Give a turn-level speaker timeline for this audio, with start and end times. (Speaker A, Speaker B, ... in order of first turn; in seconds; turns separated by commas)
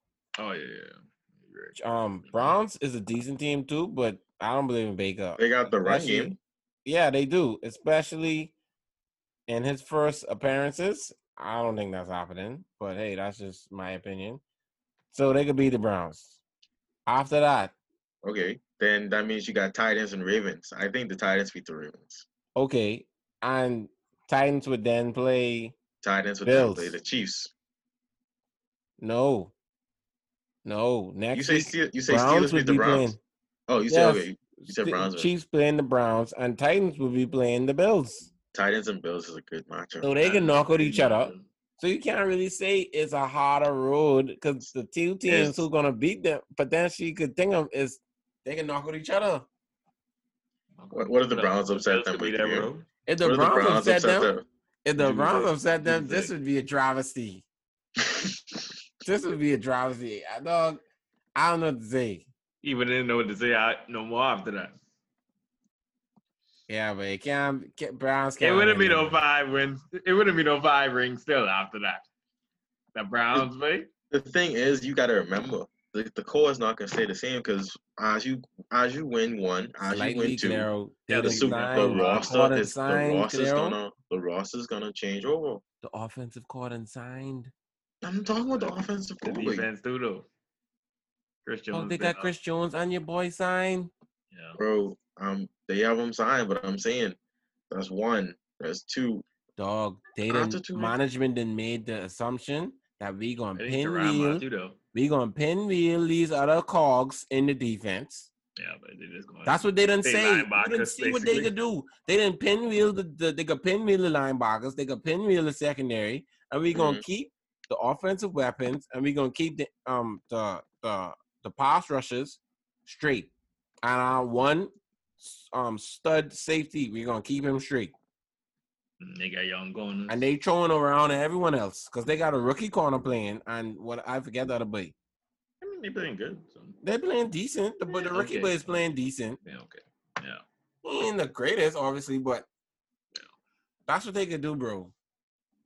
Speaker A: 0.4-2.6, Speaker B: 1.8-8.5, Speaker C: 5.4-6.4, Speaker B: 9.5-14.4, Speaker B: 15.1-16.4, Speaker B: 17.1-17.7, Speaker C: 18.2-22.2, Speaker B: 22.6-25.8, Speaker C: 26.0-27.5, Speaker B: 26.4-27.0, Speaker B: 29.0-29.5, Speaker B: 30.6-33.2, Speaker C: 31.3-33.1, Speaker C: 33.7-35.3, Speaker B: 33.9-38.3, Speaker C: 38.5-40.1, Speaker B: 40.0-49.5, Speaker A: 40.2-41.5, Speaker C: 45.2-45.6, Speaker A: 50.8-52.9, Speaker C: 50.9-52.7, Speaker B: 53.1-54.3, Speaker C: 53.2-54.4, Speaker B: 54.8-57.4, Speaker A: 55.0-56.3, Speaker B: 59.0-60.8, Speaker B: 61.3-62.3, Speaker A: 62.6-64.8, Speaker B: 66.7-69.2, Speaker A: 68.4-72.0, Speaker A: 72.9-73.9, Speaker C: 74.1-80.7, Speaker B: 79.8-83.8, Speaker A: 81.1-82.5, Speaker C: 81.2-85.6, Speaker B: 85.8-87.5, Speaker C: 88.0-89.7, Speaker A: 88.2-90.3, Speaker A: 91.4-92.3, Speaker B: 91.7-93.9, Speaker A: 94.3-94.6, Speaker C: 94.6-97.2, Speaker C: 97.7-99.2, Speaker B: 99.6-108.3, Speaker C: 100.2-101.0, Speaker A: 103.5-104.8, Speaker A: 108.6-111.5, Speaker B: 109.4-123.3, Speaker C: 116.7-117.0, Speaker B: 123.8-127.9, Speaker A: 129.0-130.2, Speaker B: 130.1-134.9, Speaker A: 135.6-136.8, Speaker B: 136.8-139.4, Speaker A: 137.9-138.8, Speaker A: 139.4-140.4, Speaker B: 140.8-142.5, Speaker B: 143.9-144.9